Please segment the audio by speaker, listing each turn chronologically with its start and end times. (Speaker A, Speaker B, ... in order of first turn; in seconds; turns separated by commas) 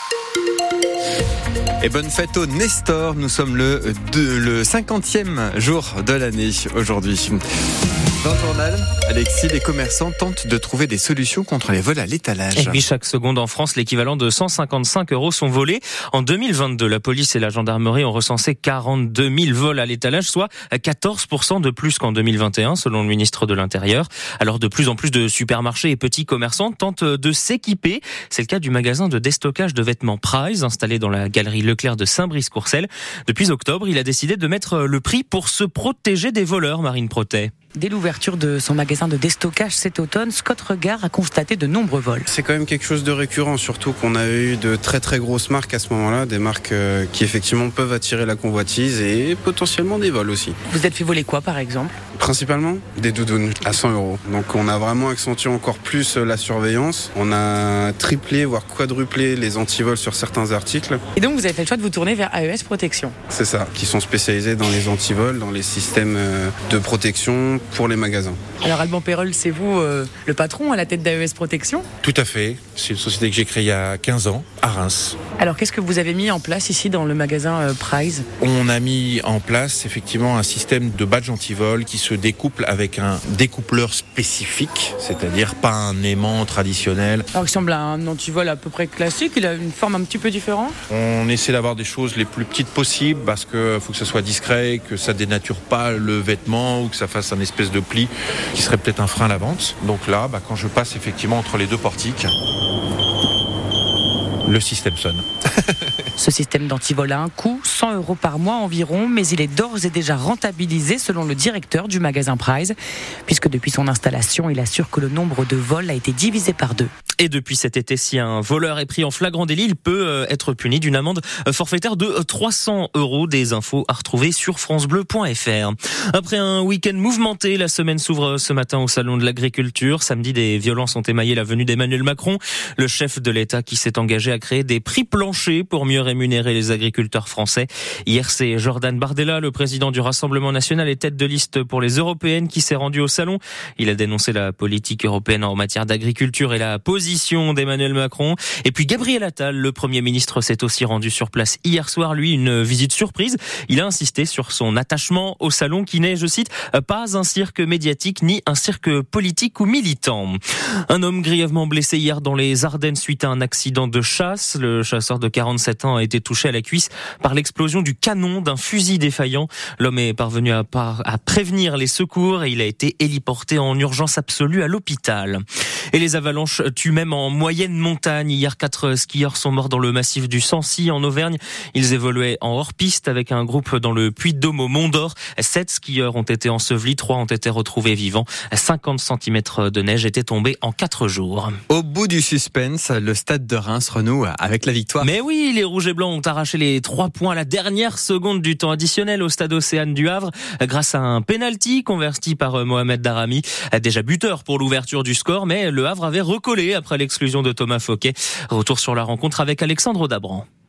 Speaker A: 1.8-7.4, Speaker A: 8.2-12.8, Speaker B: 12.6-37.5, Speaker C: 37.8-42.3, Speaker D: 42.3-50.6, Speaker C: 50.7-52.0, Speaker D: 52.2-61.0, Speaker C: 61.2-63.2, Speaker D: 63.3-68.4, Speaker C: 68.6-71.9, Speaker E: 72.0-75.2, Speaker C: 75.4-78.3, Speaker E: 78.4-87.3, Speaker C: 87.3-90.8, Speaker E: 90.9-102.3, Speaker E: 104.5-105.8, Speaker C: 106.2-116.9, Speaker B: 117.2-175.4, Speaker B: 175.9-191.6, Speaker A: 191.7-195.1, Speaker B: 195.0-210.4